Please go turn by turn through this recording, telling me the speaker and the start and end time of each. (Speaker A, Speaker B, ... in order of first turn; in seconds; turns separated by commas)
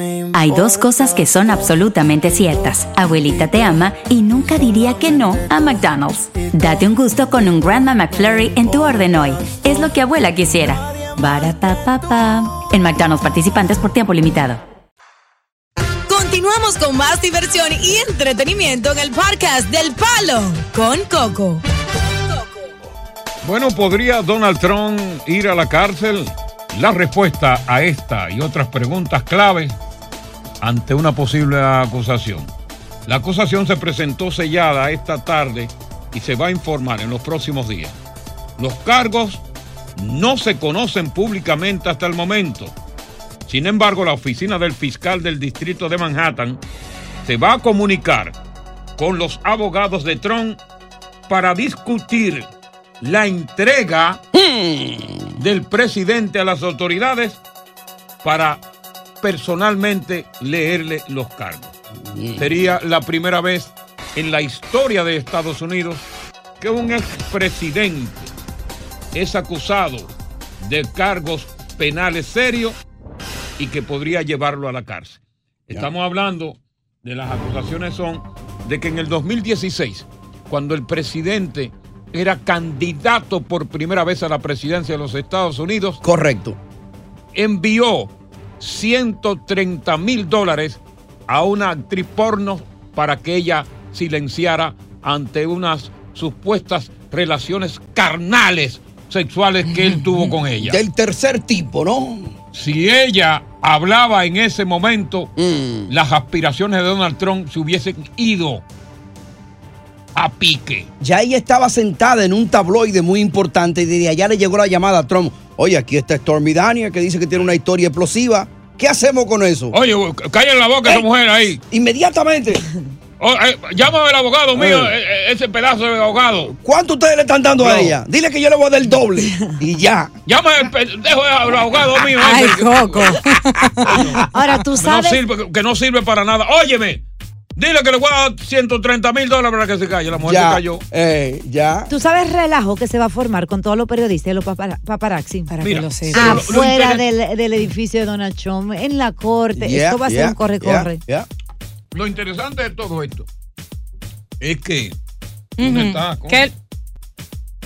Speaker A: 0.3-14.6, Speaker B: 16.1-21.6, Speaker C: 23.4-29.8, Speaker C: 30.6-32.5, Speaker C: 33.0-37.9, Speaker C: 38.6-39.4, Speaker C: 40.0-42.7, Speaker C: 43.5-46.6, Speaker C: 47.2-48.3, Speaker C: 49.0-50.6, Speaker C: 51.3-52.5, Speaker C: 53.0-54.2, Speaker D: 54.3-55.3, Speaker C: 55.4-57.4, Speaker C: 58.2-58.6, Speaker C: 59.2-61.7, Speaker D: 62.0-62.5, Speaker C: 62.4-66.0, Speaker C: 66.6-68.3, Speaker C: 69.1-72.8, Speaker C: 73.6-75.2, Speaker C: 75.7-86.0, Speaker D: 86.0-86.6, Speaker C: 87.3-100.8, Speaker D: 100.6-102.3, Speaker C: 102.5-105.3, Speaker D: 105.4-105.9, Speaker C: 105.9-108.6, Speaker C: 110.1-110.9, Speaker D: 111.0-119.7, Speaker C: 119.7-121.6, Speaker D: 121.7-122.6, Speaker C: 123.2-126.5, Speaker D: 124.5-124.9, Speaker D: 126.5-130.1, Speaker C: 127.6-128.0, Speaker C: 130.2-133.2, Speaker B: 132.2-134.0, Speaker C: 133.8-134.2, Speaker E: 134.3-135.2, Speaker C: 134.8-137.0, Speaker C: 137.6-140.8, Speaker D: 140.2-141.9, Speaker E: 141.9-151.0, Speaker B: 145.5-146.5, Speaker C: 145.6-147.0, Speaker D: 149.6-151.3, Speaker C: 151.9-153.2, Speaker C: 154.4-154.9, Speaker B: 155.6-156.5, Speaker C: 155.6-156.5